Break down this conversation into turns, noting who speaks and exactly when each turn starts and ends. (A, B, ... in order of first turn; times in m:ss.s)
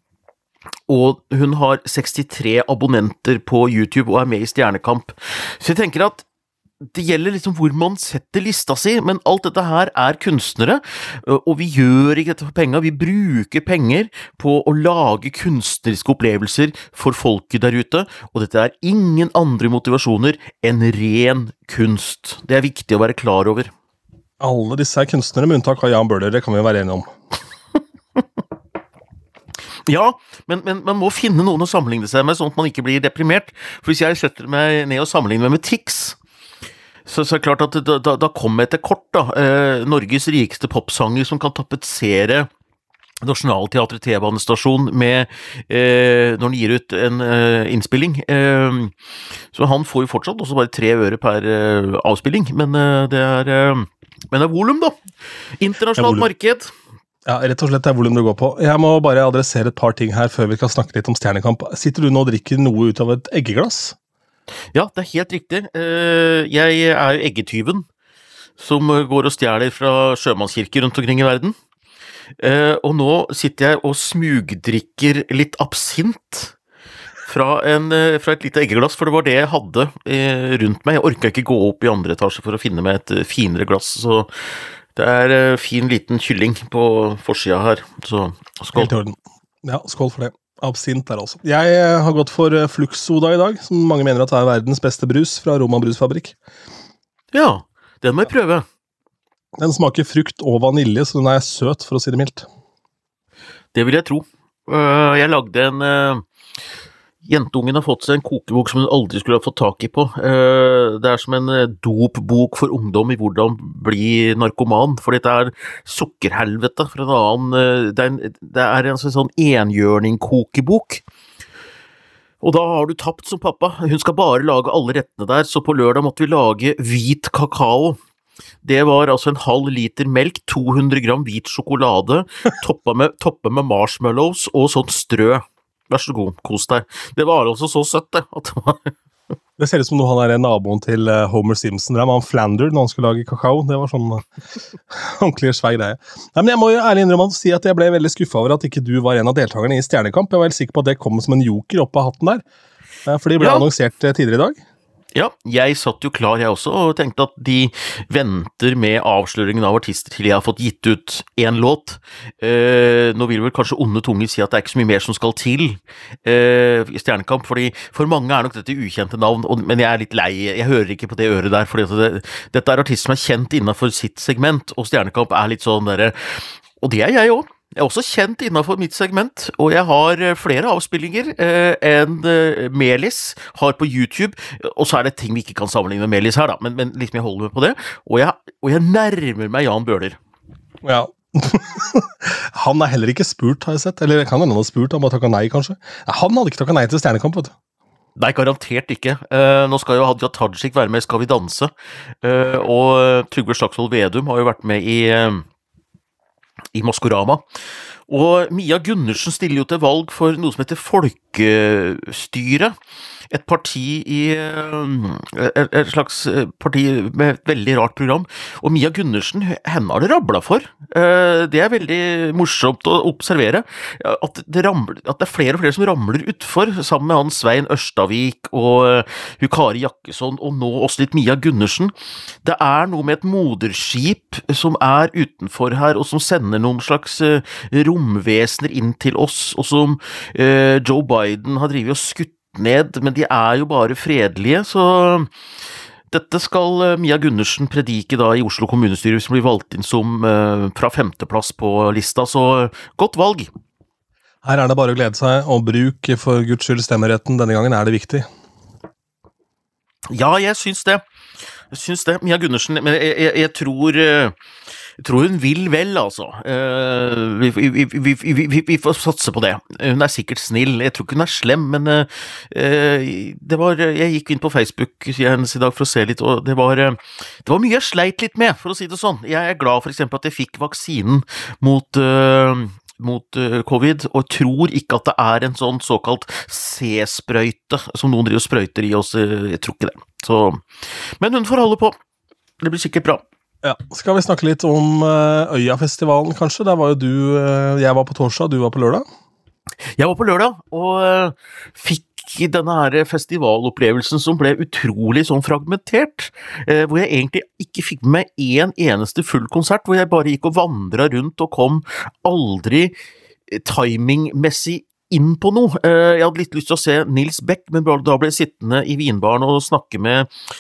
0:00.9-0:06.2 A
0:06.8-0:23.7 A
0:24.4-0:27.1 B
0:29.9-0:36.2 A
0:37.1-0:42.5 A
0:43.2-0:48.9 A
0:49.5-0:55.0 A
0:55.6-0:56.7 A
0:56.0-0:56.3 B
0:57.3-1:04.0 B
1:04.7-1:07.8 A
1:08.6-1:11.6 A
1:12.4-1:16.5 A
1:17.3-1:24.3 A
1:25.0-1:28.9 A
1:28.7-1:36.4 B
1:37.3-1:38.6 A
1:39.6-1:42.5 B
1:43.7-1:46.2 A
1:47.2-2:01.0 A
2:02.4-2:08.0 A
2:08.6-2:19.0 A
2:19.6-2:24.2 B
2:24.9-2:32.4 B
2:33.0-2:34.6 B
2:33.4-2:33.7 A
2:35.2-3:10.2 A
3:10.8-3:17.5 B
3:18.2-3:25.4 A
3:26.7-3:27.4 A
3:28.1-3:32.8 A
3:33.3-3:51.9 A
3:52.4-4:05.3 A
4:06.1-4:13.5 A
4:14.4-4:18.3 B
4:20.1-4:21.0 A
4:21.7-4:24.4 A
4:25.0-4:52.0 A
4:52.6-4:53.2 A
4:53.6-4:59.0 B
5:00.0-5:12.9 A
5:13.5-5:20.3 A